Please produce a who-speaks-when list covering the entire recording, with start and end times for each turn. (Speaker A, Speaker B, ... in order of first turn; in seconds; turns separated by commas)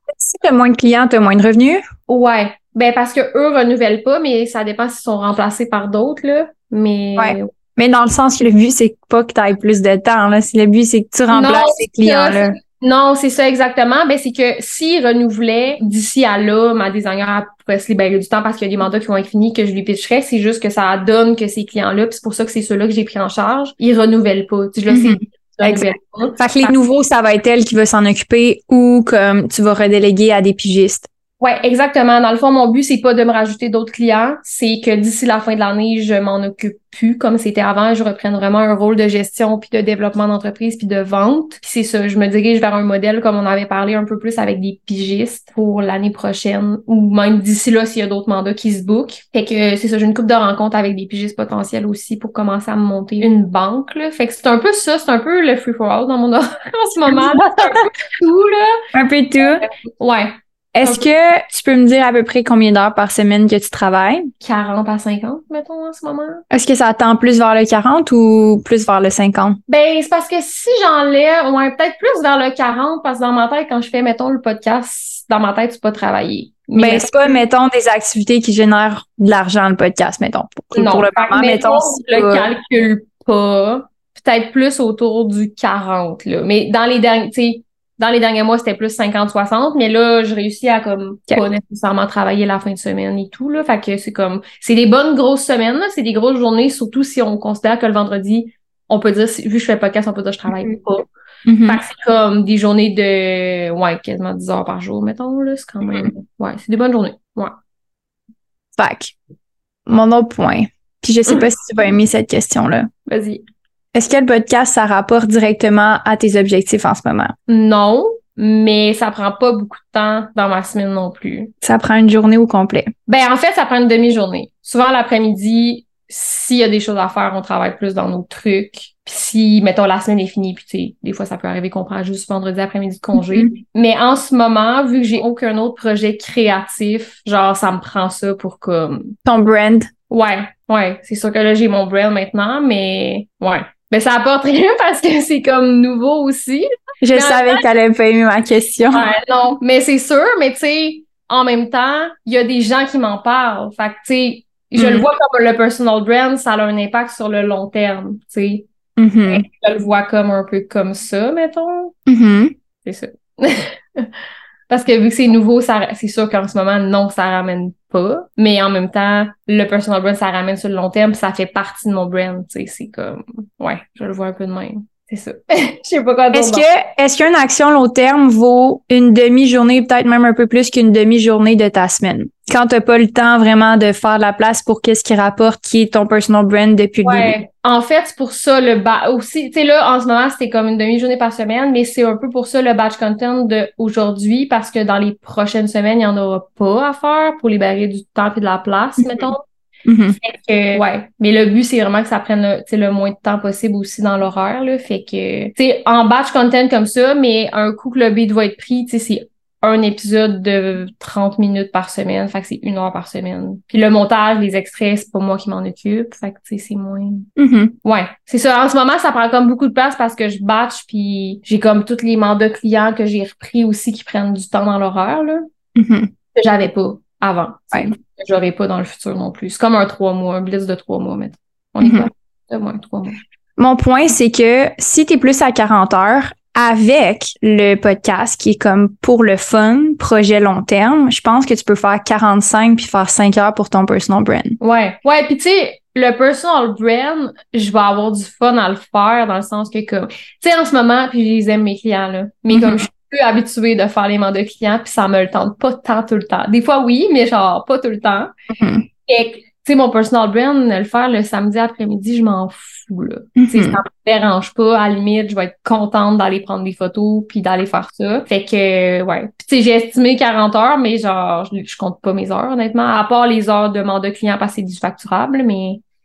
Speaker A: 0.1-1.9, Speaker B: 2.1-7.5, Speaker A: 7.2-12.6, Speaker B: 11.3-26.7, Speaker A: 24.9-31.1, Speaker B: 31.4-58.8, Speaker A: 57.1-57.8, Speaker A: 58.9-59.6, Speaker B: 59.4-61.0, Speaker A: 60.7-64.3, Speaker B: 64.4-66.4, Speaker A: 66.5-69.6, Speaker B: 69.7-77.4, Speaker A: 76.8-82.5, Speaker B: 80.7-101.1, Speaker A: 101.5-101.8, Speaker B: 101.7-107.5, Speaker A: 108.8-109.1, Speaker A: 109.9-112.9, Speaker B: 113.1-113.4, Speaker A: 113.9-117.3, Speaker B: 117.5-121.5, Speaker A: 121.6-122.9, Speaker B: 123.1-139.2, Speaker A: 133.2-133.5, Speaker A: 139.2-139.9, Speaker B: 140.1-147.7, Speaker A: 147.0-149.1, Speaker B: 148.9-158.7, Speaker A: 154.8-155.1, Speaker A: 159.0-159.4, Speaker B: 159.3-161.9, Speaker A: 162.1-162.5, Speaker B: 162.8-164.1, Speaker B: 164.7-176.7, Speaker A: 176.3-187.3, Speaker B: 187.0-199.4, Speaker A: 199.0-199.3, Speaker A: 199.9-200.2, Speaker B: 200.2-217.3, Speaker A: 217.4-217.8, Speaker B: 217.8-225.5, Speaker A: 225.8-226.1, Speaker B: 226.3-233.2, Speaker A: 231.8-232.1, Speaker A: 233.6-244.6, Speaker B: 244.6-258.3, Speaker A: 252.5-252.9, Speaker A: 258.5-258.9, Speaker B: 259.1-275.8, Speaker A: 263.4-263.8